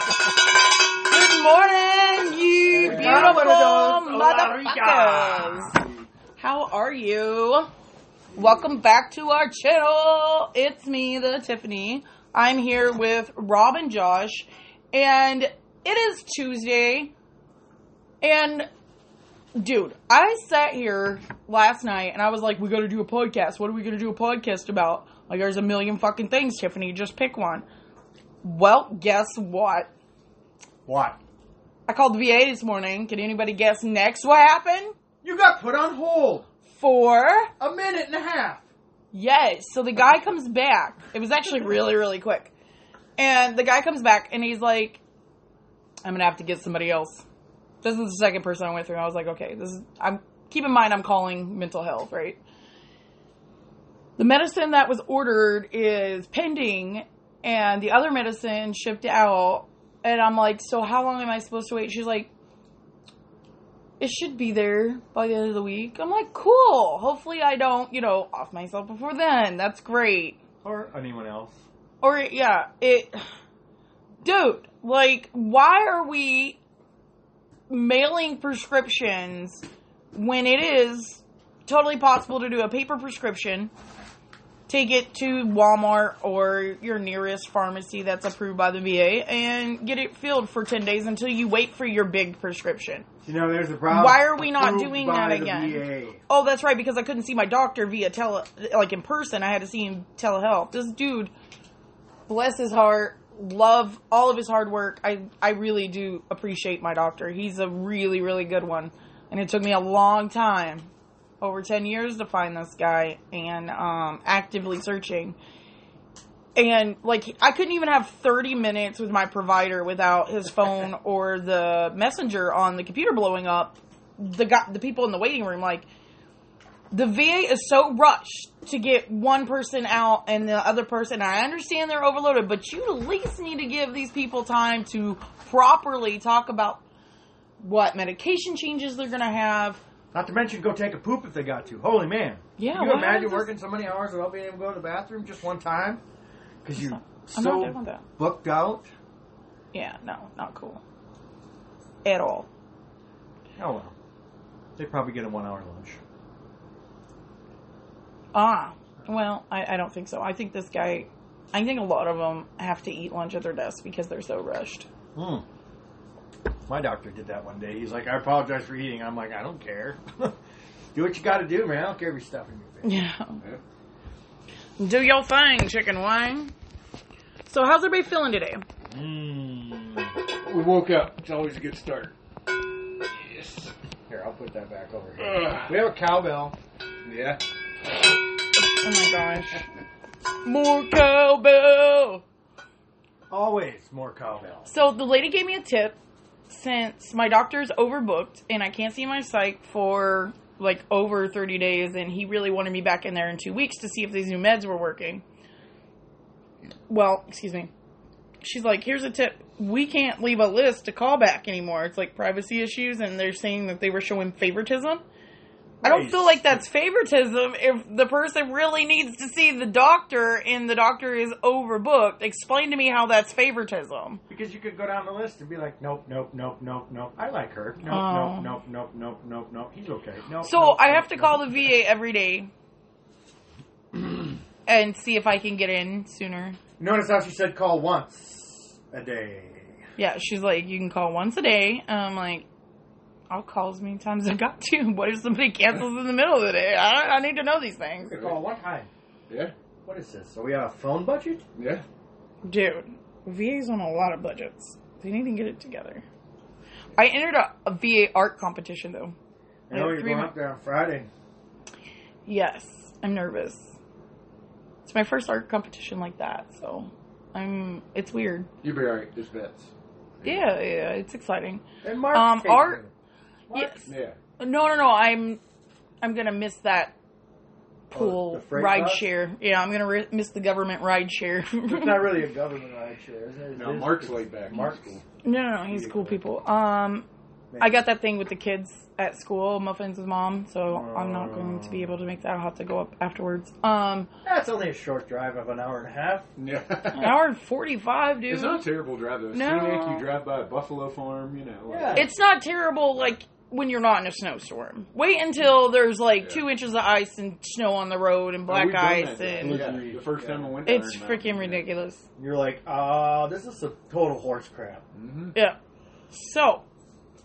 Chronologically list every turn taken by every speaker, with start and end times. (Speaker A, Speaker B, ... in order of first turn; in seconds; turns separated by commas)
Speaker A: 1.1-5.8, Speaker B: 2.7-6.0, Speaker C: 2.8-3.5, Speaker A: 6.4-7.7, Speaker A: 8.3-17.1, Speaker A: 18.2-18.7, Speaker A: 19.6-27.7, Speaker A: 28.4-29.9, Speaker B: 30.9-31.2, Speaker A: 31.9-34.9, Speaker B: 35.2-36.5, Speaker A: 36.7-37.5, Speaker B: 37.6-38.7, Speaker A: 39.1-42.5, Speaker A: 43.2-45.0, Speaker A: 46.0-47.2, Speaker A: 47.8-52.4, Speaker A: 54.2-62.3, Speaker A: 64.0-70.4, Speaker B: 70.6-71.6, Speaker A: 72.0-73.2, Speaker A: 74.2-76.6, Speaker A: 77.7-83.7, Speaker A: 84.7-93.1, Speaker B: 93.2-96.2, Speaker A: 93.9-101.3, Speaker A: 102.3-110.9, Speaker A: 111.4-115.4, Speaker A: 116.6-125.9, Speaker A: 126.9-136.8, Speaker A: 137.6-139.8, Speaker B: 140.1-146.0, Speaker A: 142.6-143.5, Speaker B: 146.6-148.9, Speaker A: 146.8-148.0, Speaker A: 149.7-150.8, Speaker A: 152.0-152.5, Speaker B: 153.6-153.9, Speaker B: 154.8-156.0, Speaker A: 158.3-164.9, Speaker B: 165.2-165.4, Speaker B: 166.7-170.4, Speaker B: 170.9-173.0, Speaker A: 172.8-173.4, Speaker A: 174.8-176.5, Speaker A: 177.5-178.6, Speaker B: 178.9-180.2, Speaker C: 180.4-182.1, Speaker C: 183.0-183.7, Speaker B: 184.1-186.6, Speaker C: 185.2-185.7, Speaker C: 187.1-187.4, Speaker A: 188.6-189.7, Speaker A: 190.4-192.2, Speaker B: 193.3-194.7, Speaker A: 194.7-195.9, Speaker A: 196.5-205.2, Speaker A: 206.9-207.7, Speaker A: 208.4-215.0, Speaker B: 215.8-216.6, Speaker A: 215.8-224.2, Speaker B: 224.3-231.4, Speaker A: 227.9-228.5, Speaker A: 230.4-232.5, Speaker A: 234.7-236.6, Speaker B: 236.8-239.8, Speaker A: 240.0-242.5, Speaker A: 243.3-248.2, Speaker B: 248.0-248.9, Speaker B: 249.8-251.4, Speaker C: 251.6-251.8, Speaker A: 252.4-256.1, Speaker A: 256.9-259.2, Speaker B: 259.7-261.1, Speaker A: 259.7-260.3, Speaker A: 262.3-263.8, Speaker A: 264.8-268.5, Speaker C: 268.6-270.5, Speaker A: 270.2-272.8, Speaker B: 271.8-272.9, Speaker B: 273.5-273.9, Speaker C: 273.9-274.2, Speaker A: 274.4-275.4, Speaker A: 276.0-276.9, Speaker B: 277.9-279.1, Speaker A: 277.9-282.2, Speaker B: 281.7-285.0, Speaker C: 283.6-285.0, Speaker A: 285.2-287.1, Speaker B: 285.6-286.2, Speaker B: 287.5-287.8, Speaker A: 287.6-294.1, Speaker B: 290.7-292.0, Speaker B: 294.2-296.3, Speaker C: 296.4-297.2, Speaker A: 296.9-298.6, Speaker C: 298.3-302.1, Speaker A: 299.3-300.1, Speaker B: 301.7-302.1, Speaker A: 301.9-309.8, Speaker C: 308.5-311.7, Speaker B: 309.4-310.5, Speaker A: 310.6-312.1, Speaker B: 312.2-314.8, Speaker C: 314.9-315.4, Speaker A: 316.1-316.6